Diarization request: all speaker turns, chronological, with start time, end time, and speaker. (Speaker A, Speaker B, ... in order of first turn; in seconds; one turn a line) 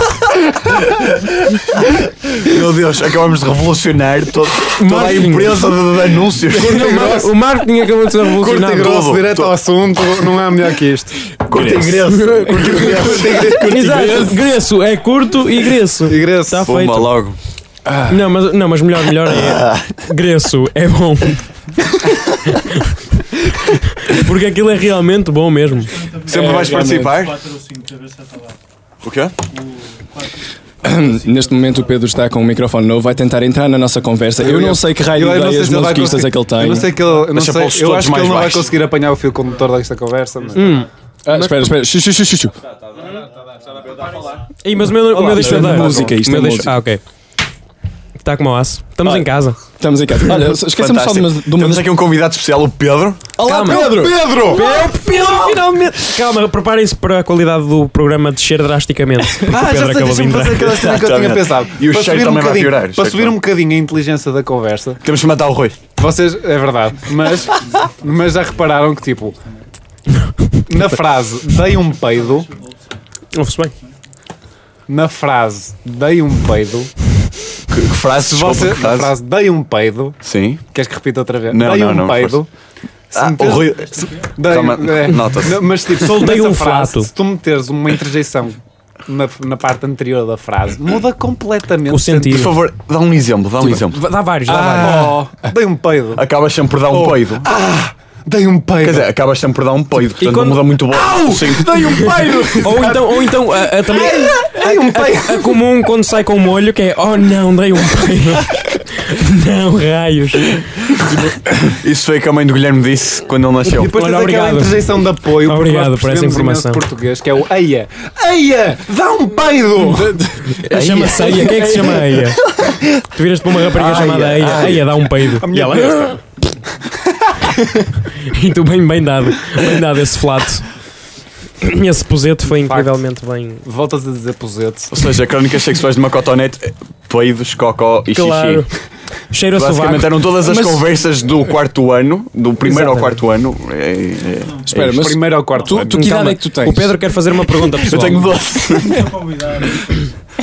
Speaker A: 0.5-7.1
Speaker B: 4.8-5.7
Speaker C: 6.5-7.3
Speaker B: 6.5-9.0
Speaker A: 8.3-9.6
Speaker C: 8.7-11.3
Speaker A: 11.4-13.2
Speaker D: 11.5-14.4
Speaker C: 12.6-14.2
Speaker B: 13.6-17.1
Speaker C: 16.1-16.6
Speaker A: 16.6-17.4
Speaker D: 17.8-18.2
Speaker B: 18.1-21.4
Speaker A: 19.2-19.9
Speaker B: 22.4-22.9
Speaker B: 23.6-26.0
Speaker E: 25.7-28.6
Speaker A: 26.3-27.3
Speaker D: 26.3-27.2
Speaker A: 29.0-29.3
Speaker E: 29.5-32.3
Speaker D: 30.8-36.9
Speaker C: 34.4-40.8
Speaker E: 36.8-37.2
Speaker A: 37.1-38.8
Speaker E: 39.4-39.7
Speaker E: 40.4-40.9
Speaker B: 40.5-41.7
Speaker D: 41.2-42.6
Speaker E: 42.7-44.5
Speaker A: 43.9-44.2
Speaker B: 44.6-47.0
Speaker D: 44.8-46.8
Speaker C: 45.5-46.1
Speaker B: 48.2-49.6
Speaker D: 49.0-51.9
Speaker A: 50.6-53.4
Speaker D: 53.4-55.6
Speaker B: 53.4-60.8
Speaker C: 53.5-54.8
Speaker C: 59.4-65.0
Speaker A: 60.6-63.4
Speaker A: 65.0-65.8
Speaker C: 66.0-69.3
Speaker E: 67.0-69.7
Speaker C: 70.7-72.5
Speaker E: 71.4-73.0
Speaker B: 73.3-73.7
Speaker C: 74.9-76.9
Speaker A: 77.7-79.2
Speaker C: 78.2-80.2
Speaker A: 80.2-80.6
Speaker C: 80.7-82.5
Speaker A: 81.5-82.4
Speaker A: 83.1-85.7
Speaker C: 83.1-92.4
Speaker E: 83.5-84.3
Speaker B: 85.9-87.1
Speaker B: 91.9-92.6
Speaker A: 92.2-94.0
Speaker B: 93.6-95.1
Speaker C: 94.5-96.2
Speaker A: 94.8-95.2
Speaker A: 96.1-97.5
Speaker C: 96.9-99.1
Speaker A: 98.8-102.0
Speaker B: 100.2-110.6
Speaker C: 101.1-101.6
Speaker D: 101.2-103.0
Speaker C: 102.6-105.6
Speaker D: 111.1-111.4
Speaker A: 111.6-113.9
Speaker C: 113.8-120.3
Speaker B: 113.8-114.8
Speaker B: 115.4-116.8
Speaker D: 119.8-122.4
Speaker B: 120.6-122.5
Speaker A: 120.7-121.5
Speaker B: 123.0-126.2
Speaker A: 123.7-124.9
Speaker C: 123.7-126.2
Speaker C: 126.9-127.5
Speaker B: 128.1-130.7
Speaker B: 131.6-133.6
Speaker C: 132.5-133.0
Speaker C: 133.6-134.9
Speaker A: 134.9-138.7
Speaker B: 138.1-138.7
Speaker B: 139.3-140.2
Speaker A: 139.5-145.2
Speaker D: 140.4-140.9
Speaker E: 144.4-144.7
Speaker D: 144.7-146.9
Speaker C: 144.8-146.3
Speaker E: 145.5-145.8
Speaker B: 145.9-148.4
Speaker A: 147.5-149.1
Speaker E: 148.6-150.1